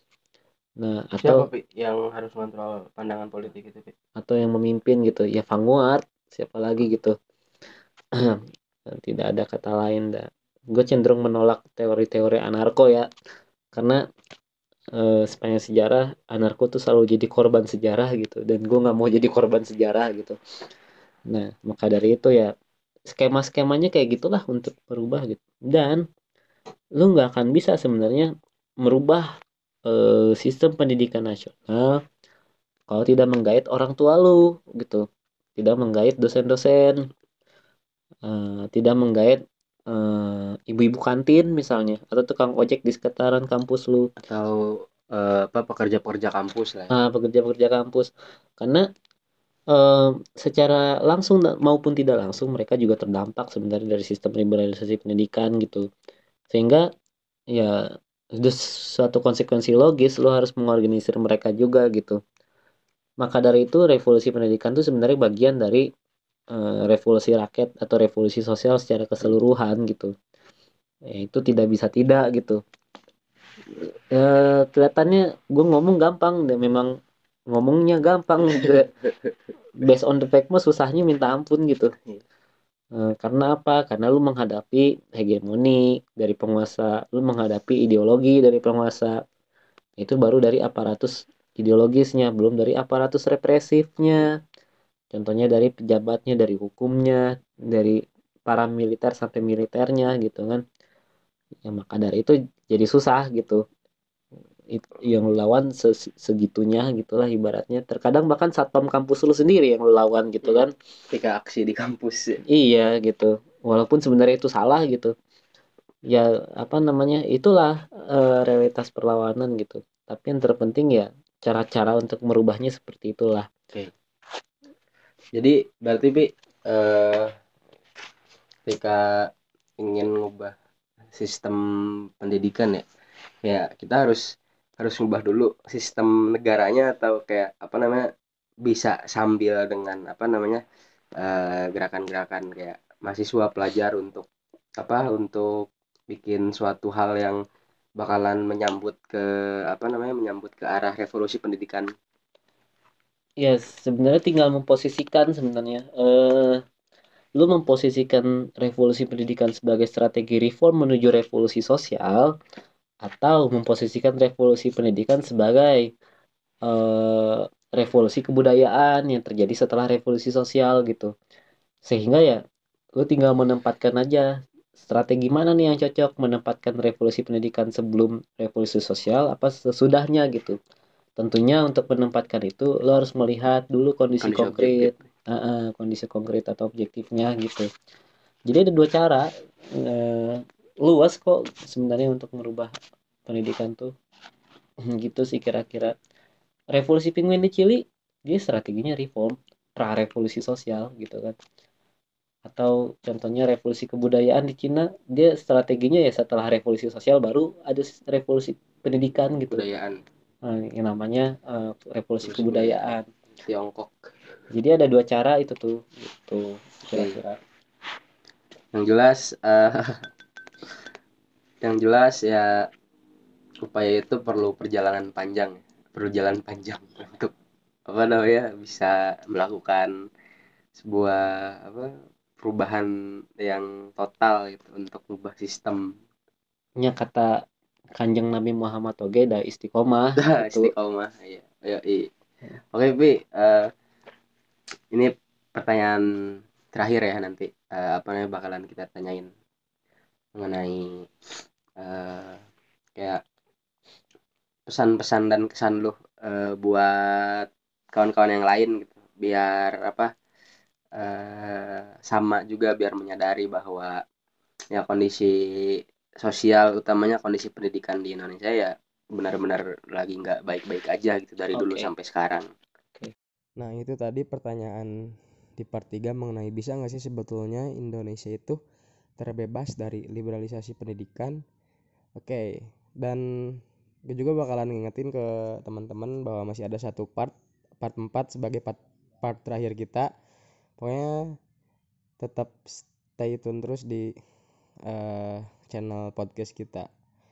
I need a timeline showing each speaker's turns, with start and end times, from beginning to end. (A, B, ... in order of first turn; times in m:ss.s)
0:00.8-0:01.5 A
0:01.2-0:03.9 B
0:04.2-0:07.1 A
0:08.9-0:13.1 A
0:13.7-0:14.0 A
0:15.0-0:20.4 A
0:21.3-0:22.5 A
0:23.1-0:26.0 A
0:27.0-0:28.3 A
0:28.8-0:29.3 A
0:29.9-0:32.0 A
0:32.9-0:35.0 A
0:35.6-0:37.0 A
0:38.2-0:44.1 A
0:44.2-0:46.9 B
0:46.9-0:48.8 A
0:49.7-0:55.8 A
0:56.5-0:56.8 A
0:57.5-0:57.8 A
0:58.4-1:02.2 A
1:03.2-1:05.8 A
1:06.5-1:10.1 A
1:11.1-1:12.6 A
1:14.1-1:16.9 A
1:17.5-1:18.9 A
1:19.8-1:21.9 A
1:22.9-1:29.2 A
1:30.0-1:34.4 A
1:35.1-1:40.6 A
1:41.6-1:43.6 A
1:44.7-1:50.7 A
1:50.4-1:52.4 B
1:52.5-1:55.1 A
1:56.1-2:03.5 A
2:05.4-2:07.3 B
2:08.7-2:10.5 B
2:11.1-2:11.6 B
2:12.2-2:12.8 B
2:13.4-2:14.2 B
2:14.8-2:18.0 B
2:18.6-2:20.6 B
2:21.2-2:24.3 B
2:24.8-2:25.5 B
2:26.1-2:27.4 B
2:28.0-2:31.8 B
2:33.4-2:36.6 A
2:37.4-2:42.3 A
2:43.0-2:45.9 A
2:46.6-2:51.1 A
2:51.8-2:52.4 A
2:53.0-2:54.3 A
2:54.8-3:00.6 A
3:01.2-3:07.7 A
3:04.2-3:05.0 B
3:08.5-3:12.7 A
3:13.3-3:13.9 A
3:14.9-3:15.9 A
3:16.7-3:21.4 A
3:22.4-3:29.6 A
3:29.5-3:30.0 B
3:30.5-3:33.0 A
3:32.2-3:34.0 B
3:34.5-3:37.4 A
3:36.9-3:37.2 B
3:38.7-3:39.8 B
3:41.6-3:42.5 B
3:43.6-3:47.3 B
3:47.9-3:49.9 B
3:50.8-3:51.9 B
3:52.4-3:55.8 B
3:56.8-3:57.3 A
3:58.0-4:00.7 A
4:00.2-4:02.1 B
4:02.7-4:03.7 B
4:04.9-4:06.0 B
4:06.7-4:09.3 B
4:10.4-4:11.1 B
4:11.8-4:12.4 B
4:14.7-4:20.1 B
4:21.0-4:24.0 B
4:24.7-4:32.5 B
4:31.5-4:31.9 A
4:33.6-4:34.9 C
4:35.6-4:38.6 C
4:39.2-4:41.4 C
4:42.2-4:43.2 C
4:44.1-4:50.1 C
4:50.8-4:51.2 C
4:52.2-4:54.1 C
4:54.9-4:56.9 C